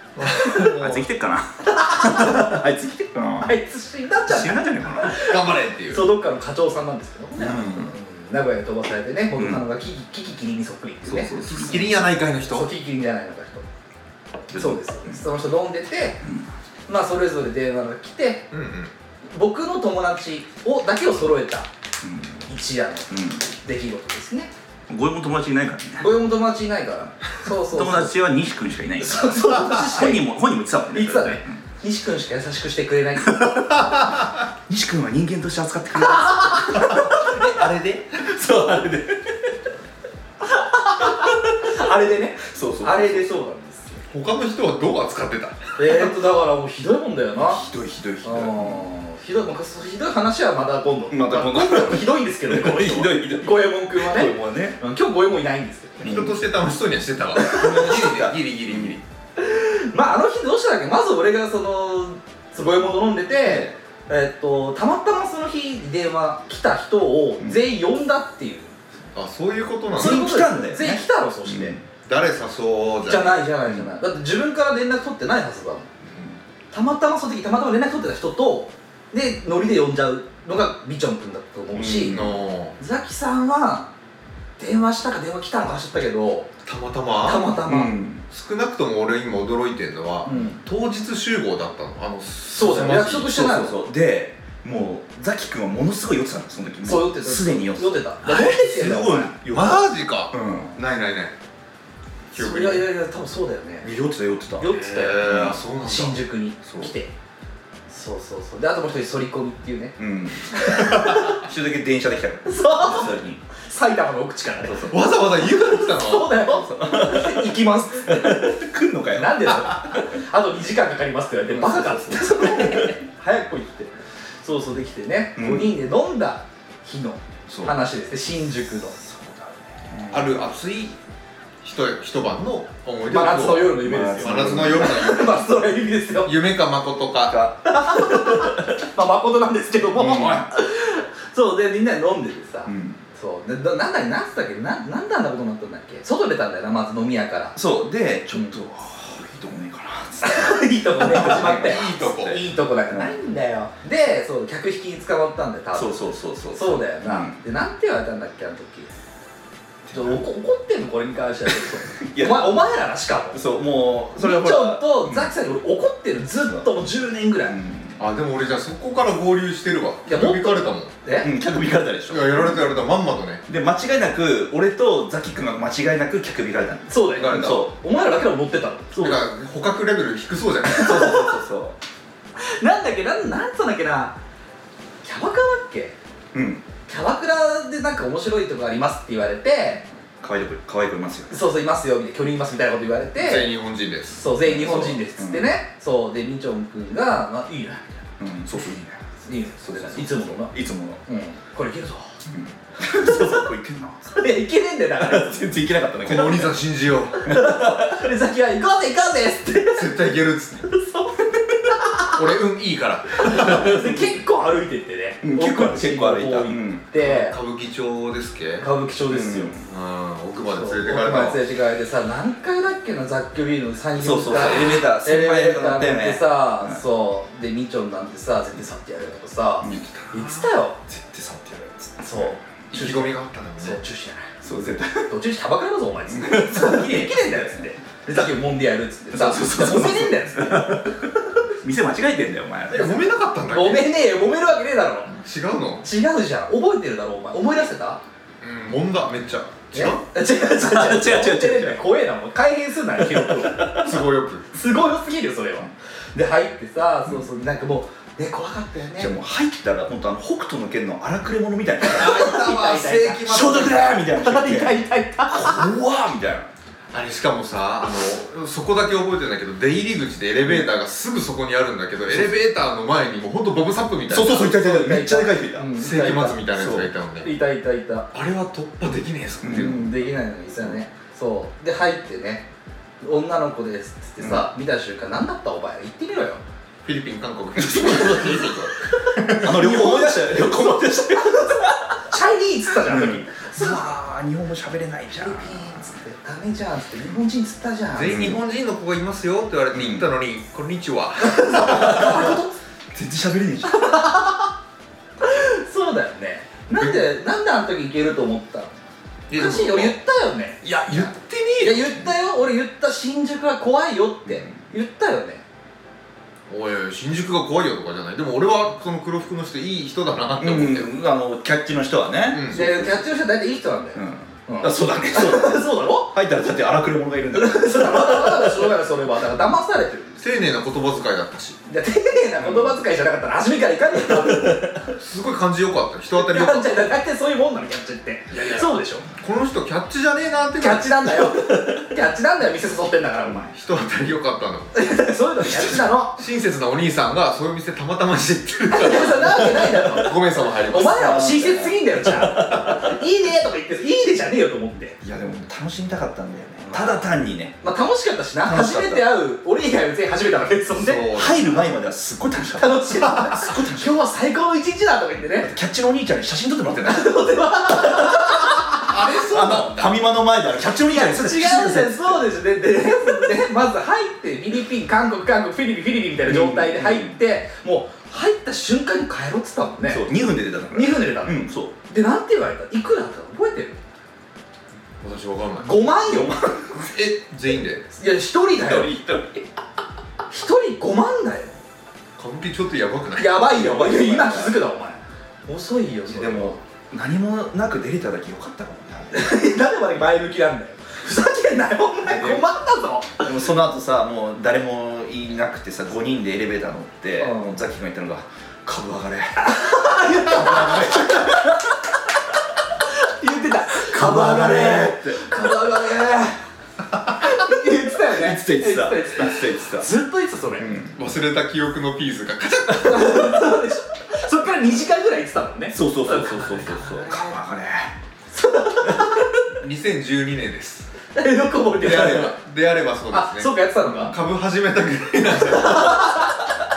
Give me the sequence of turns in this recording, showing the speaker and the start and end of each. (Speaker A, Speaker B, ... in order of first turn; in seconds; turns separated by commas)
Speaker A: 0.1-1.0, Speaker B: 0.3-3.6, Speaker C: 1.8-2.5, Speaker C: 3.4-11.3, Speaker B: 4.3-5.2, Speaker A: 5.1-6.1, Speaker B: 7.4-7.9, Speaker B: 9.3-9.6, Speaker B: 11.0-12.1, Speaker A: 11.4-12.7, Speaker C: 12.5-13.6, Speaker B: 14.5-15.2, Speaker C: 14.5-16.2, Speaker B: 16.2-16.5, Speaker C: 16.9-18.5, Speaker A: 18.5-18.9, Speaker C: 19.3-21.7, Speaker B: 22.0-22.4, Speaker C: 22.5-24.5, Speaker B: 23.1-23.4, Speaker B: 24.9-26.1, Speaker C: 26.0-28.2, Speaker B: 27.6-31.6, Speaker C: 29.0-30.2, Speaker C: 30.9-34.0, Speaker B: 34.7-37.7, Speaker C: 36.1-37.6, Speaker A: 37.4-38.0, Speaker B: 38.2-39.1, Speaker C: 38.5-38.9, Speaker C: 40.4-44.0, Speaker B: 42.5-43.4, Speaker A: 44.1-45.6, Speaker C: 45.8-47.6, Speaker B: 47.4-48.9, Speaker C: 48.2-56.2, Speaker B: 51.1-54.8, Speaker B: 56.0-56.4, Speaker A: 56.0-59.0, Speaker B: 57.5-58.9, Speaker C: 59.4-68.8, Speaker B: 63.5-63.7, Speaker A: 69.1-70.2, Speaker B: 69.9-71.8, Speaker C: 70.0-71.8, Speaker A: 72.0-73.4, Speaker C: 73.1-75.9, Speaker C: 76.7-82.2, Speaker B: 81.7-82.4, Speaker A: 82.1-82.8, Speaker C: 82.8-83.9, Speaker C: 84.6-86.5, Speaker A: 86.6-87.5, Speaker C: 87.2-88.0, Speaker B: 87.6-88.2, Speaker A: 88.3-93.3, Speaker C: 90.2-90.6, Speaker B: 90.3-90.5, Speaker C: 92.5-93.8, Speaker B: 92.9-100.7, Speaker C: 96.8-99.3, Speaker A: 99.5-101.3, Speaker A: 102.3-102.9, Speaker C: 102.3-103.9, Speaker B: 103.8-105.6, Speaker C: 104.6-107.1, Speaker A: 104.7-106.2, Speaker B: 106.6-106.9, Speaker C: 107.9-111.4, Speaker B: 110.0-113.4, Speaker C: 112.4-118.5, Speaker A: 114.8-116.3, Speaker B: 116.5-120.0, Speaker C: 119.1-129.0, Speaker B: 121.5-122.9, Speaker B: 125.3-125.8, Speaker B: 127.5-127.8, Speaker B: 129.0-130.4, Speaker A: 130.1-130.9, Speaker A: 131.6-135.5, Speaker C: 133.1-136.3, Speaker B: 133.8-135.0, Speaker A: 136.2-137.5, Speaker B: 137.3-138.5, Speaker C: 137.6-147.6, Speaker B: 139.9-140.5, Speaker B: 142.7-143.0, Speaker B: 147.5-151.9, Speaker C: 150.2-158.9, Speaker A: 151.1-152.4, Speaker B: 152.9-153.1, Speaker B: 155.7-157.4, Speaker B: 159.8-160.2, Speaker C: 159.9-163.4, Speaker B: 161.9-162.6, Speaker B: 163.3-165.3, Speaker C: 164.2-167.6, Speaker B: 167.5-168.0, Speaker A: 168.0-170.9, Speaker C: 170.1-171.3, Speaker B: 171.2-172.7, Speaker A: 172.1-173.4, Speaker B: 173.5-177.7, Speaker C: 176.9-179.2, Speaker A: 177.1-177.7, Speaker A: 179.0-181.0, Speaker C: 180.7-181.3, Speaker B: 180.7-181.8, Speaker C: 182.4-184.2, Speaker C: 185.0-185.9, Speaker B: 186.3-186.6, Speaker C: 186.9-189.8, Speaker B: 190.2-191.4, Speaker C: 191.3-193.5, Speaker A: 193.2-194.2, Speaker C: 194.2-198.0, Speaker B: 194.3-195.5, Speaker B: 198.2-199.0, Speaker C: 199.2-200.5, Speaker B: 199.6-201.0, Speaker C: 201.1-202.1, Speaker B: 202.3-204.3, Speaker C: 202.8-203.5, Speaker C: 204.1-205.5, Speaker B: 205.0-206.6, Speaker A: 206.0-207.2, Speaker C: 207.2-210.0, Speaker B: 207.2-208.1, Speaker A: 209.7-210.7, Speaker C: 210.7-212.2, Speaker A: 212.0-213.8, Speaker C: 213.2-217.4, Speaker B: 213.7-214.0, Speaker B: 215.2-216.8, Speaker A: 216.9-218.7, Speaker C: 218.6-219.6, Speaker B: 219.1-219.6, Speaker A: 219.6-221.4, Speaker C: 220.3-230.8, Speaker B: 224.0-226.8, Speaker A: 224.4-224.7, Speaker B: 229.6-229.9, Speaker A: 229.8-230.5, Speaker B: 230.9-232.4, Speaker C: 232.0-234.3, Speaker A: 232.7-233.8, Speaker B: 234.4-235.1, Speaker C: 235.1-240.9, Speaker B: 236.1-238.3, Speaker B: 239.1-243.0, Speaker A: 242.7-243.9, Speaker C: 243.5-245.1, Speaker A: 245.1-245.8, Speaker C: 245.8-248.0, Speaker A: 248.4-250.0, Speaker C: 249.7-253.8, Speaker B: 250.6-251.8, Speaker B: 253.0-254.0, Speaker A: 253.7-254.5, Speaker C: 254.5-259.1, Speaker B: 259.0-262.4, Speaker C: 261.8-265.7, Speaker A: 261.9-264.0, Speaker B: 263.2-266.5, Speaker A: 266.9-274.6, Speaker B: 274.1-275.7, Speaker C: 274.2-276.4, Speaker A: 275.8-277.4, Speaker B: 276.5-276.9, Speaker C: 277.2-278.1, Speaker A: 278.1-279.9, Speaker B: 279.4-279.9, Speaker C: 279.5-282.5, Speaker C: 283.0-286.4, Speaker B: 284.2-284.5, Speaker A: 286.8-289.5, Speaker B: 287.6-288.7, Speaker C: 289.2-293.9, Speaker B: 289.3-292.0, Speaker B: 292.8-295.9, Speaker C: 295.2-298.3, Speaker A: 297.9-302.2, Speaker B: 299.7-300.1, Speaker C: 301.2-302.5, Speaker B: 301.5-302.4, Speaker B: 302.9-304.0, Speaker C: 303.7-304.5, Speaker C: 305.2-308.8, Speaker A: 306.8-307.0, Speaker A: 309.3-309.9, Speaker C: 309.3-315.4, Speaker A: 310.6-311.9, Speaker A: 316.5-320.9, Speaker B: 320.4-323.1, Speaker A: 322.3-322.6, Speaker C: 322.5-326.1, Speaker B: 323.9-328.7, Speaker C: 327.3-330.4, Speaker A: 330.2-331.6, Speaker C: 331.7-334.9, Speaker B: 332.4-332.7, Speaker B: 334.1-334.6, Speaker A: 335.0-336.8, Speaker C: 336.1-339.1, Speaker A: 338.3-341.1, Speaker C: 340.6-343.5, Speaker A: 343.5-344.8, Speaker C: 344.7-346.2, Speaker A: 345.4-351.2, Speaker C: 348.7-355.0, Speaker B: 350.7-353.0, Speaker B: 355.0-357.6, Speaker C: 356.6-357.1, Speaker C: 357.6-361.1, Speaker B: 358.4-359.2, Speaker A: 360.7-361.7, Speaker B: 361.1-364.0, Speaker C: 362.6-365.5, Speaker B: 365.4-368.6, Speaker C: 366.8-369.3, Speaker A: 368.8-369.9, Speaker B: 369.2-372.3, Speaker C: 370.9-380.1, Speaker B: 376.2-377.2, Speaker B: 379.9-381.7, Speaker C: 380.7-383.8, Speaker A: 385.0-385.8, Speaker C: 385.6-386.8, Speaker A: 386.7-387.9, Speaker C: 387.9-388.9, Speaker B: 388.6-389.4, Speaker C: 390.3-391.6, Speaker A: 392.2-393.5, Speaker C: 393.1-396.6, Speaker B: 393.5-394.6, Speaker B: 396.1-399.4, Speaker C: 399.1-403.3, Speaker B: 402.1-402.4, Speaker B: 403.2-411.5, Speaker C: 407.2-407.6, Speaker C: 409.4-411.8, Speaker C: 412.8-416.4, Speaker B: 413.9-415.2, Speaker C: 417.2-420.7, Speaker B: 418.0-419.9, Speaker B: 420.6-421.0, Speaker A: 420.9-423.4, Speaker C: 422.8-427.4, Speaker B: 425.7-427.9, Speaker C: 428.3-429.4, Speaker A: 429.6-430.9, Speaker C: 431.1-432.3, Speaker A: 431.8-436.1, Speaker C: 433.1-434.1, Speaker C: 435.4-436.4